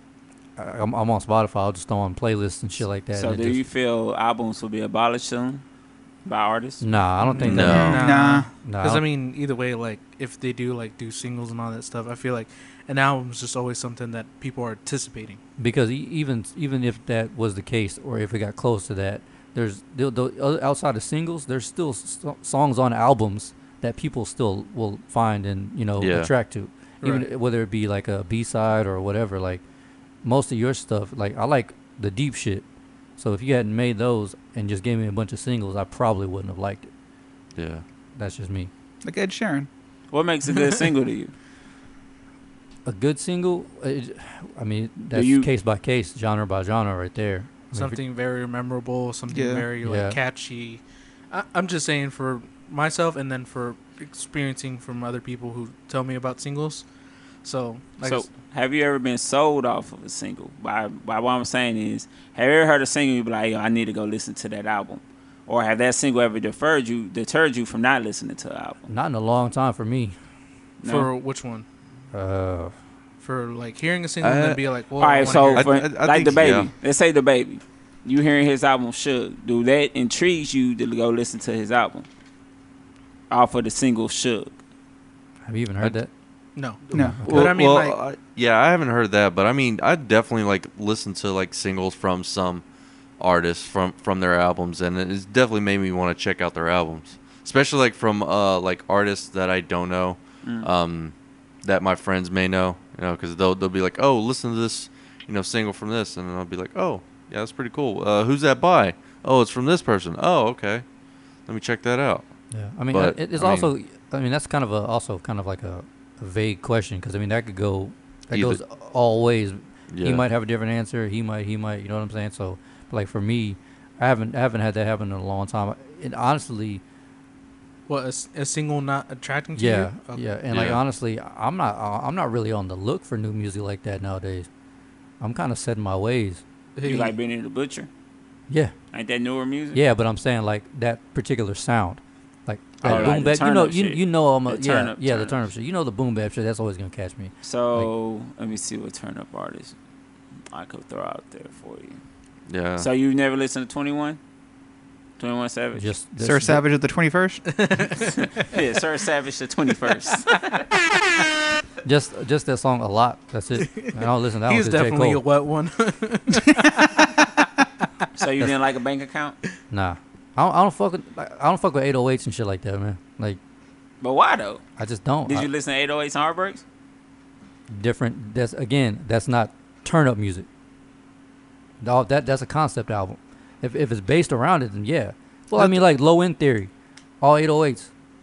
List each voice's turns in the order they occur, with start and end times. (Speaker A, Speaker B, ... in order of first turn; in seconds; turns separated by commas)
Speaker A: 0.6-3.6, Speaker B: 3.1-5.6, Speaker B: 6.2-6.8, Speaker A: 6.8-8.1, Speaker C: 7.2-15.4, Speaker D: 7.4-8.0, Speaker E: 7.5-8.5, Speaker A: 8.6-9.0, Speaker A: 15.6-29.6, Speaker D: 26.0-26.3, Speaker C: 27.0-27.3, Speaker A: 30.2-32.6, Speaker A: 33.2-36.9, Speaker D: 37.5-37.8, Speaker A: 38.2-38.7, Speaker E: 39.0-39.7, Speaker B: 40.1-41.3, Speaker A: 42.9-48.0, Speaker B: 45.1-45.5, Speaker C: 47.7-56.9, Speaker E: 49.3-49.7, Speaker A: 49.8-50.2, Speaker C: 57.4-58.3, Speaker B: 58.0-68.9, Speaker A: 68.9-70.1, Speaker B: 70.8-71.1, Speaker C: 70.8-71.7, Speaker A: 72.1-72.7, Speaker C: 73.2-75.7, Speaker D: 74.2-74.6, Speaker B: 75.0-82.1, Speaker D: 75.3-76.7, Speaker B: 83.3-84.5, Speaker A: 85.5-86.1, Speaker C: 86.5-88.0, Speaker A: 86.9-87.5, Speaker E: 86.9-87.3, Speaker D: 87.2-92.6, Speaker D: 93.2-110.8, Speaker B: 100.4-100.7, Speaker D: 111.5-112.3, Speaker A: 112.5-126.8, Speaker D: 112.9-113.7, Speaker D: 118.3-118.6, Speaker D: 119.9-120.2, Speaker C: 127.9-130.2, Speaker A: 129.6-134.5, Speaker D: 130.5-130.8, Speaker A: 135.2-136.4, Speaker C: 136.8-137.1, Speaker B: 136.8-137.9, Speaker B: 138.9-139.8, Speaker A: 139.7-147.9, Speaker D: 142.8-143.2, Speaker B: 142.8-145.4, Speaker B: 147.4-149.7, Speaker B: 150.5-152.0, Speaker D: 152.5-152.9, Speaker B: 152.8-154.2, Speaker B: 155.2-155.9, Speaker A: 155.7-156.6, Speaker E: 156.2-157.4, Speaker C: 157.6-158.1, Speaker B: 158.0-160.6, Speaker A: 161.8-165.2, Speaker C: 163.7-167.4, Speaker B: 168.2-169.4, Speaker A: 169.7-173.4, Speaker B: 174.0-174.6, Speaker A: 174.8-175.5, Speaker B: 175.3-176.6, Speaker A: 177.7-180.5, Speaker A: 181.8-187.9, Speaker C: 185.6-185.8